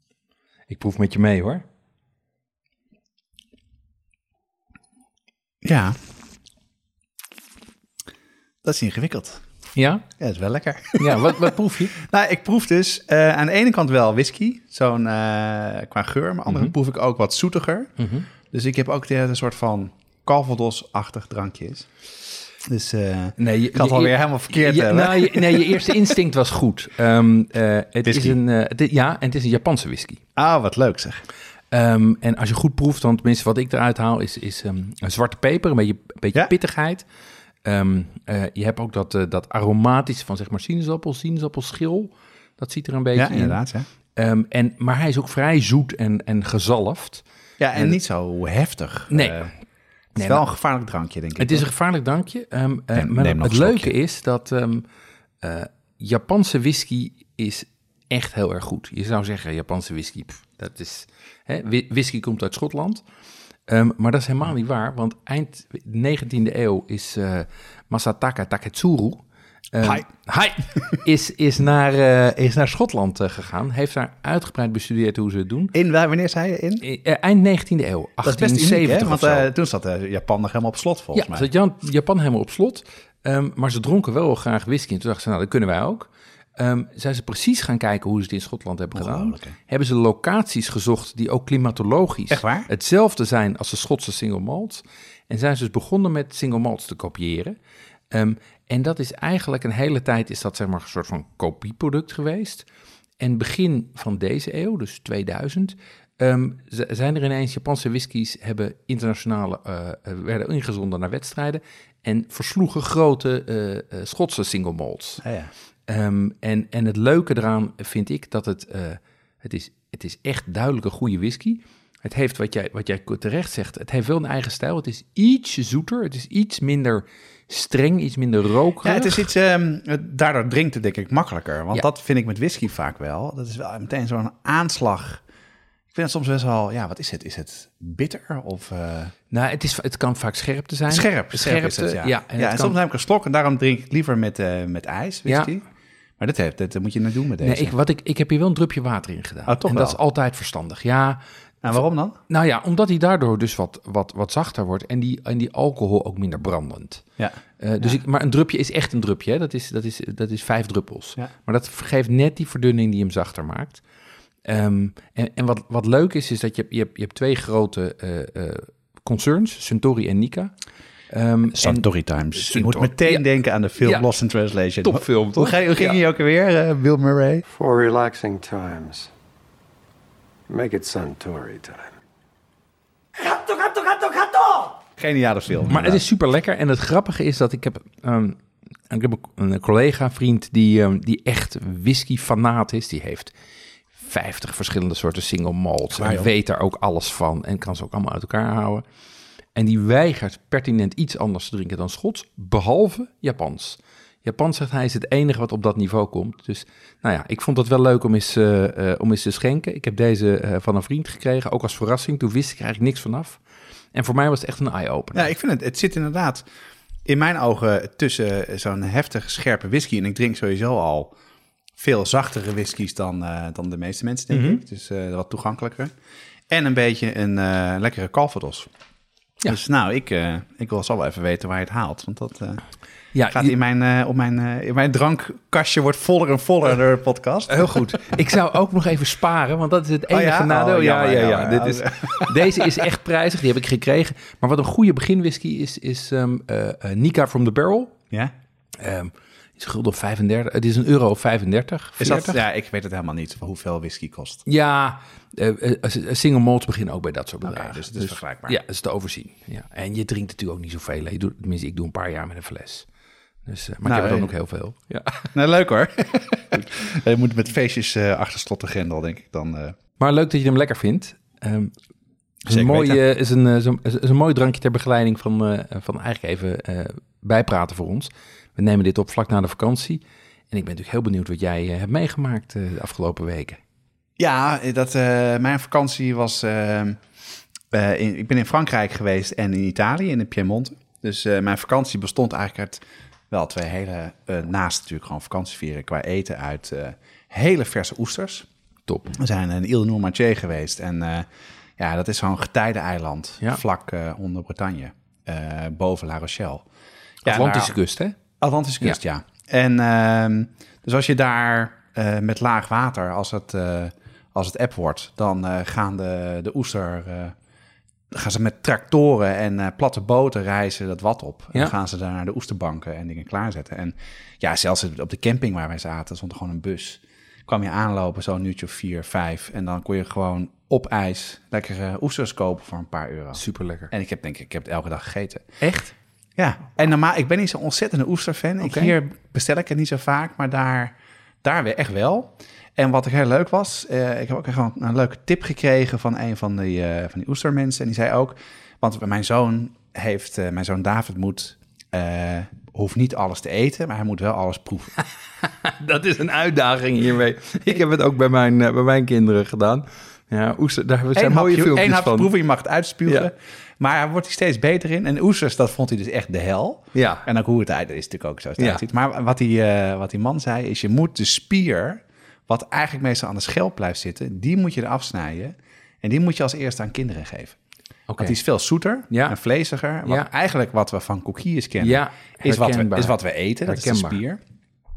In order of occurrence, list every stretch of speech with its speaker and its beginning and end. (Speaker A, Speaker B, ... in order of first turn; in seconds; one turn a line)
Speaker A: 0.7-1.6
Speaker B: 5.6-6.0
Speaker B: 8.6-9.4
Speaker A: 9.7-10.0
Speaker B: 10.2-21.9
Speaker A: 11.0-11.9
Speaker A: 16.5-16.7
Speaker A: 18.0-18.3
Speaker B: 22.6-26.1
Speaker A: 23.4-30.2
Speaker B: 28.0-28.4
Speaker B: 30.4-31.2
Speaker A: 31.7-37.0
Speaker A: 37.6-43.6
Speaker B: 43.1-43.9
Speaker A: 44.1-47.2
Speaker B: 47.6-49.5
Speaker A: 49.1-49.4
Speaker B: 50.1-51.7
Speaker A: 50.1-50.4
Speaker A: 51.4-54.8
Speaker B: 52.9-53.9
Speaker A: 55.4-63.0
Speaker A: 63.7-75.7
Speaker B: 75.7-76.8
Speaker A: 76.8-79.5
Speaker B: 78.2-81.5
Speaker A: 81.1-97.5
Speaker B: 88.9-89.5
Speaker B: 92.3-92.7
Speaker A: 98.1-102.6
Speaker A: 103.2-115.2
Speaker B: 115.2-115.5
Speaker A: 115.9-129.2
Speaker B: 128.8-135.2
Speaker B: 135.9-139.1
Speaker A: 139.3-142.7
Speaker B: 140.9-145.6
Speaker B: 146.2-147.7
Speaker A: 147.4-151.2
Speaker B: 149.5-150.0
Speaker B: 151.6-152.2
Speaker A: 152.3-163.8
Speaker B: 157.2-158.0
Speaker A: 164.4-170.5
Speaker A: 171.1-173.2
Speaker B: 171.6-177.4
Speaker A: 174.8-176.0
Speaker C: 177.5-179.1
Speaker C: 180.5-181.9
Speaker C: 183.2-184.8
Speaker B: 185.0-186.0
Speaker A: 185.7-188.4
Speaker A: 188.9-193.3
Speaker A: 194.0-198.8
Speaker B: 195.9-196.3
Speaker A: 199.5-213.4
Speaker A: 213.9-215.3
Speaker B: 215.1-216.4
Speaker B: 217.1-221.1
Speaker B: 221.8-225.9
Speaker A: 224.3-224.6
Speaker B: 226.5-228.7
Speaker B: 229.4-232.6
Speaker A: 233.1-233.5
Speaker B: 233.3-237.8
Speaker A: 237.5-248.0
Speaker B: 240.1-242.8
Speaker A: 248.8-252.4
Speaker B: 252.0-254.4
Speaker A: 254.4-262.9
Speaker B: 257.4-258.6
Speaker A: 263.4-265.3
Speaker B: 263.8-264.3
Speaker B: 265.3-269.8
Speaker A: 270.0-271.7
Speaker A: 272.4-283.6
Speaker B: 272.5-273.0
Speaker B: 284.2-287.0
Speaker B: 287.7-298.5
Speaker A: 298.9-299.1
Speaker B: 299.1-306.6
Speaker B: 307.2-307.7
Speaker A: 307.2-308.2
Speaker B: 308.4-317.4
Speaker B: 318.1-335.4
Speaker A: 333.3-333.9
Speaker A: 335.6-335.9
Speaker B: 336.4-355.0
Speaker A: 338.6-338.9
Speaker A: 355.6-362.3
Speaker B: 361.1-377.6
Speaker A: 366.9-367.2
Speaker A: 378.1-378.4
Speaker B: 378.2-384.4
Speaker A: 379.1-379.4
Speaker A: 381.8-384.2